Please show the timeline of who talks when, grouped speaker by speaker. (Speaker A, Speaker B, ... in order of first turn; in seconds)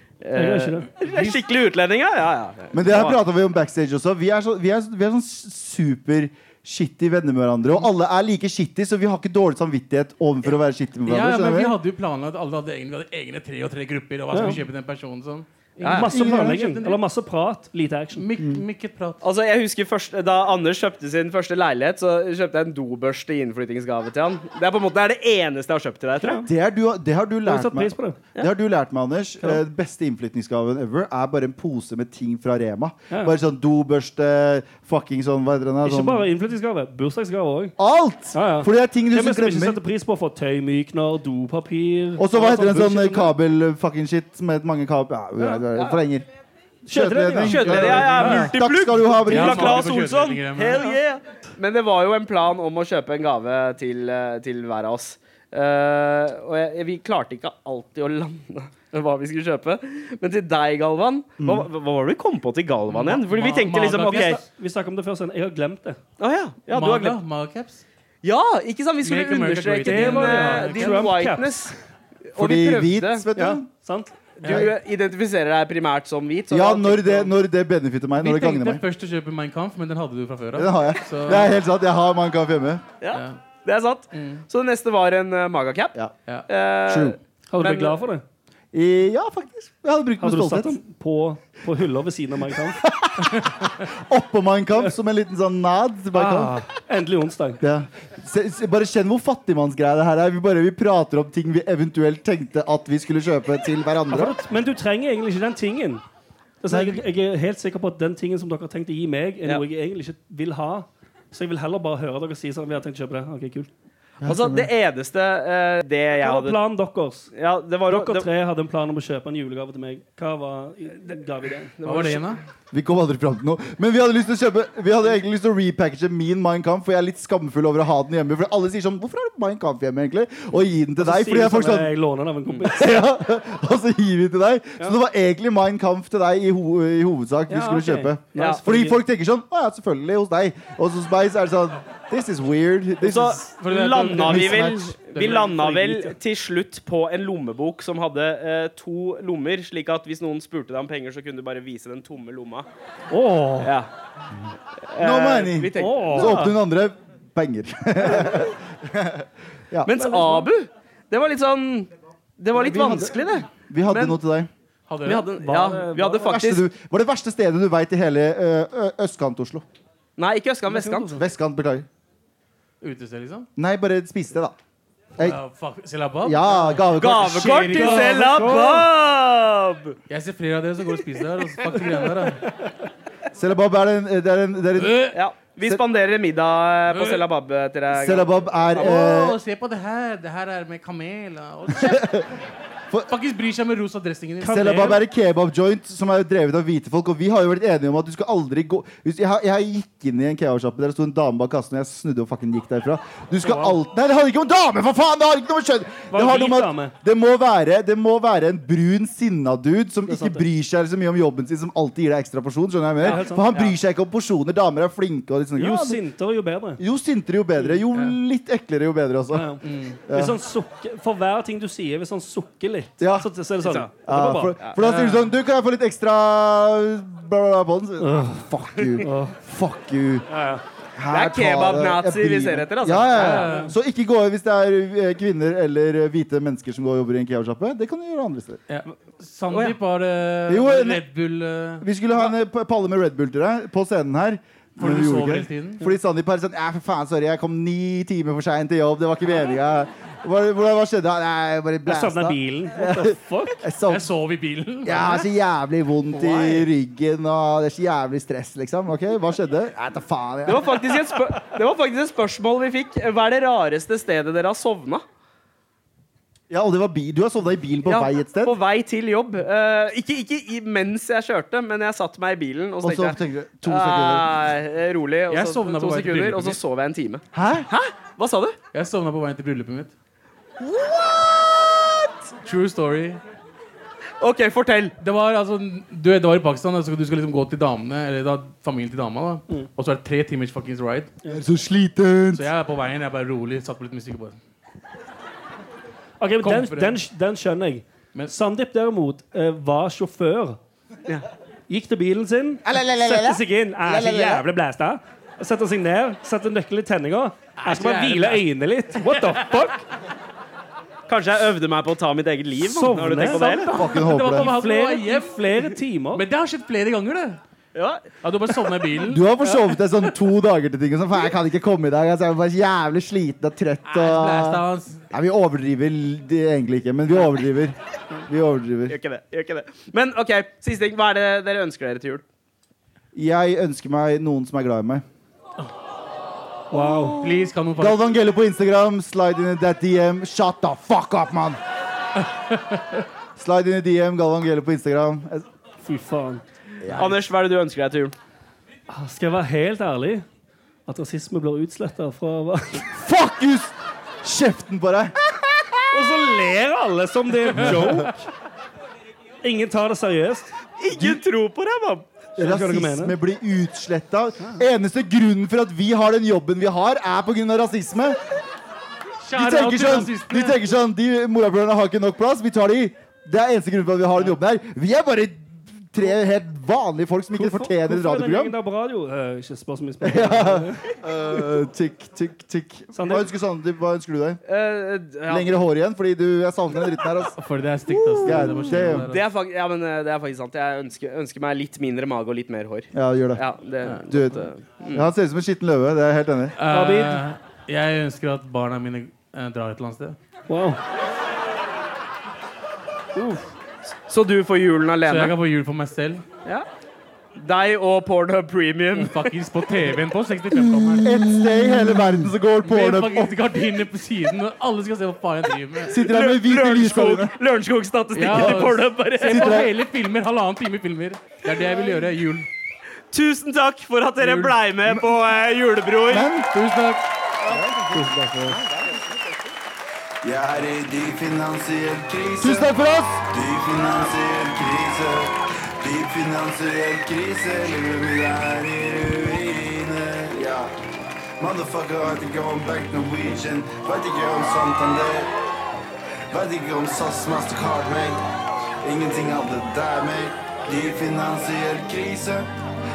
Speaker A: 0.2-3.2, 15.8-16.1, 19.2-26.4, 47.5-64.4, 66.2-67.2, 68.2-71.7, 72.3-73.6, 74.4-77.3, 83.0-86.0, 86.5-88.0, 114.2-116.6, 117.3-118.3, 121.8-122.4, 143.0-152.7, 153.6-153.9, 154.9-156.6, 159.8-164.2, 165.1-166.7, 170.2-171.2, 176.9-180.0, 185.1-189.0, 213.0-213.7, 223.6-223.9, 231.1-233.5, 239.5-239.8, 260.5-265.0, 267.9-278.6, 280.6-282.1, 284.2-284.9, 311.1-313.9, 317.8-318.7, 328.9-332.2, 336.8-337.5, 346.9-348.1, 360.8-362.1, 384.5-385.6, 387.9-395.1, 404.1-405.4, 407.4-409.7, 415.9-419.6, 423.1-426.3, 427.4-427.9, 428.5-429.6
Speaker B: 0.3-0.9, 14.3-14.6, 15.9-18.3, 26.2-26.5, 27.5-28.2, 35.8-37.8, 38.3-43.3, 45.4-46.0, 46.9-48.5, 64.0-66.0, 69.8-71.7, 73.7-74.2, 87.5-88.2, 90.2-92.8, 96.1-97.6, 104.1-106.0, 106.6-113.7, 116.2-117.3, 117.9-121.7, 131.0-133.0, 137.5-139.0, 145.2-146.2, 153.1-153.7, 155.8-156.4, 159.9-160.5, 165.3-166.3, 170.7-171.2, 177.7-178.9, 194.4-195.0, 203.4-203.8, 206.1-206.9, 210.1-210.4, 213.0-213.6, 215.6-216.8, 219.3-224.6, 228.0-229.4, 230.3-230.6, 251.9-253.7, 296.2-300.6, 301.7-309.8, 312.6-316.2, 336.7-337.2, 345.8-346.4, 348.9-350.3, 350.9-352.9, 355.9-358.3, 359.4-360.5, 362.4-363.1, 377.3-380.9, 382.9-383.3, 396.7-397.2, 400.5-400.8, 403.1-403.5, 427.9-428.6
Speaker C: 1.0-1.4, 11.1-17.0, 18.2-19.2, 47.6-48.4, 49.3-50.8, 62.9-64.4, 66.7-67.8, 69.0-71.3, 74.4-74.7, 78.2-81.6, 83.1-83.4, 84.1-84.4, 121.8-122.4, 143.6-145.5, 164.9-165.3, 172.8-173.5, 175.2-178.4, 180.1-182.4, 184.8-185.2, 186.9-187.2, 188.8-192.1, 193.1-194.9, 219.6-220.0, 224.8-225.2, 233.1-233.7, 238.7-241.8, 244.8-245.8, 253.9-255.2, 275.3-276.6, 278.7-279.9, 282.4-283.2, 285.0-291.1, 292.3-294.4, 296.4-297.0, 307.6-308.4, 309.0-309.5, 313.9-317.4, 318.2-319.3, 323.9-325.0, 337.1-338.0, 342.4-343.0, 346.9-347.2, 369.2-370.6, 387.4-389.2, 396.6-400.2, 405.1-406.2, 408.9-411.1, 412.6-416.0, 418.1-422.5, 424.2-424.6, 426.4-427.1
Speaker D: 2.7-11.8, 16.1-16.6, 26.4-36.3, 37.8-39.8, 42.2-46.2, 46.9-49.9, 61.4-61.7, 72.4-73.7, 74.5-74.7, 76.5-78.8, 80.5-82.8, 86.9-87.2, 88.7-90.8, 92.8-96.6, 97.6-104.4, 106.7-107.0, 114.2-114.7, 122.7-131.9, 132.7-143.5, 144.1-144.9, 155.0-159.9, 162.6-164.5, 166.2-169.7, 171.2-171.9, 173.6-174.6, 176.2-177.8, 183.4-185.0, 187.9-189.4, 191.7-192.3, 194.5-216.0, 216.8-219.5, 220.1-220.4, 223.0-223.3, 224.0-230.3, 231.0-238.6, 240.5-241.1, 241.8-254.1, 254.8-261.1, 266.5-268.6, 272.8-274.3, 277.3-277.7, 291.3-292.5, 302.6-304.4, 313.7-314.5, 319.1-327.8, 328.3-329.0, 333.1-335.0, 337.8-341.6, 343.4-345.5, 352.9-355.1, 357.6-358.1, 360.9-361.2, 362.4-368.2, 369.3-378.6, 380.0-384.4, 385.3-387.3, 388.2-389.1, 392.9-393.4, 394.1-396.6, 411.0-413.4, 415.9-417.4, 418.3-418.7, 419.3-419.7, 426.1-426.5, 427.5-428.1, 432.4-433.2
Speaker E: 430.2-432.7, 433.2-440.7, 441.4-445.3, 446.3-448.2, 448.8-452.5